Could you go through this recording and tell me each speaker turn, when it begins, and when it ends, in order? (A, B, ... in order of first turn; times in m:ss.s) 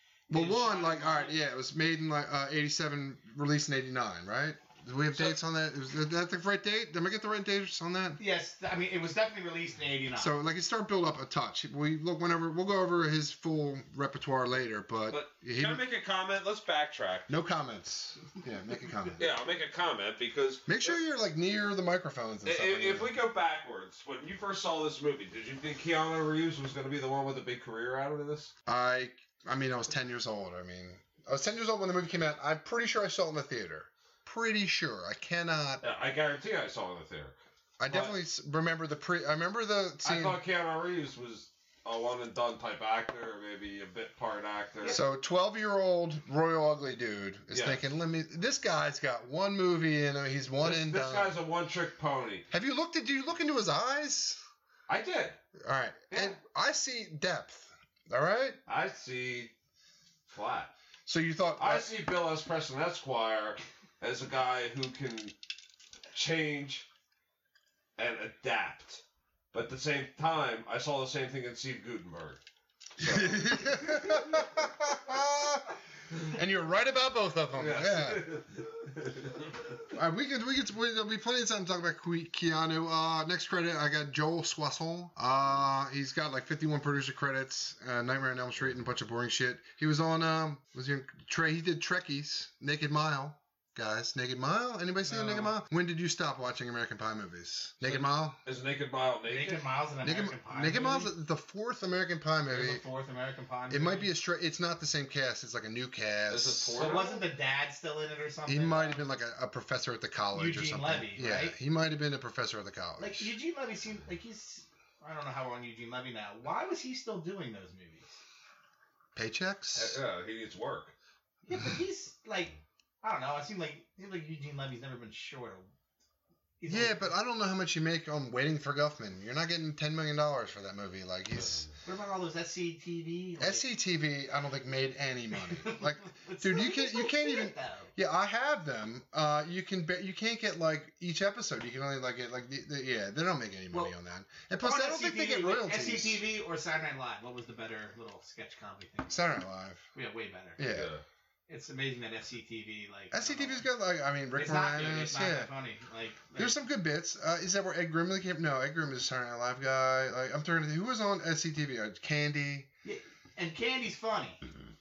0:00.3-0:01.4 A
0:00.3-0:08.2 B
0:08.2-0:10.3 A
0:10.2-0:15.8 B
0:15.1-0:17.3 C
0:17.3-0:19.3 B
0:19.2-0:21.0 C
0:20.7-0:23.1 B
0:22.4-0:28.5 C
0:28.7-0:35.8 B
0:35.8-0:37.4 C
0:37.8-0:40.4 B
0:37.9-0:38.1 C
0:40.0-0:45.0 C
0:44.9-0:51.4 B
0:47.5-0:47.8 C
0:50.6-0:52.5 C
0:52.5-0:54.4 B
0:54.9-0:55.4 C
0:55.6-0:58.6 B
0:56.1-0:56.4 C
0:58.7-0:59.5 C
1:00.3-1:00.7 C
1:01.1-1:01.9 B
1:01.6-1:05.3 C
1:06.1-1:06.9 C
1:08.0-1:12.4 C
1:13.0-1:14.4 C
1:13.0-1:18.4 B
1:17.6-1:19.4 C
1:19.9-1:38.4 B
1:35.0-1:35.6 A
1:37.8-1:39.7 C
1:39.3-1:41.1 A
1:40.0-1:42.8 B
1:42.5-1:44.1 A
1:43.7-1:46.8 B
1:46.3-1:47.3 C
1:46.8-1:49.0 A
1:48.5-1:53.3 B
1:50.3-1:51.6 A
1:53.0-1:58.2 A
1:59.2-2:00.0 B
1:59.8-2:00.9 C
2:01.5-2:05.7 A
2:06.6-2:07.1 A
2:06.7-2:11.7 B
2:11.8-2:13.7 A
2:13.4-2:26.2 B
2:15.4-2:17.9 A
2:24.6-2:29.2 A
2:29.1-2:29.9 B
2:29.9-2:30.6 A
2:30.6-2:30.9 B
2:30.6-2:31.0 C
2:31.5-2:33.7 A
2:33.1-2:35.5 B
2:34.4-2:36.6 A
2:36.4-2:42.7 B
2:42.8-2:44.4 A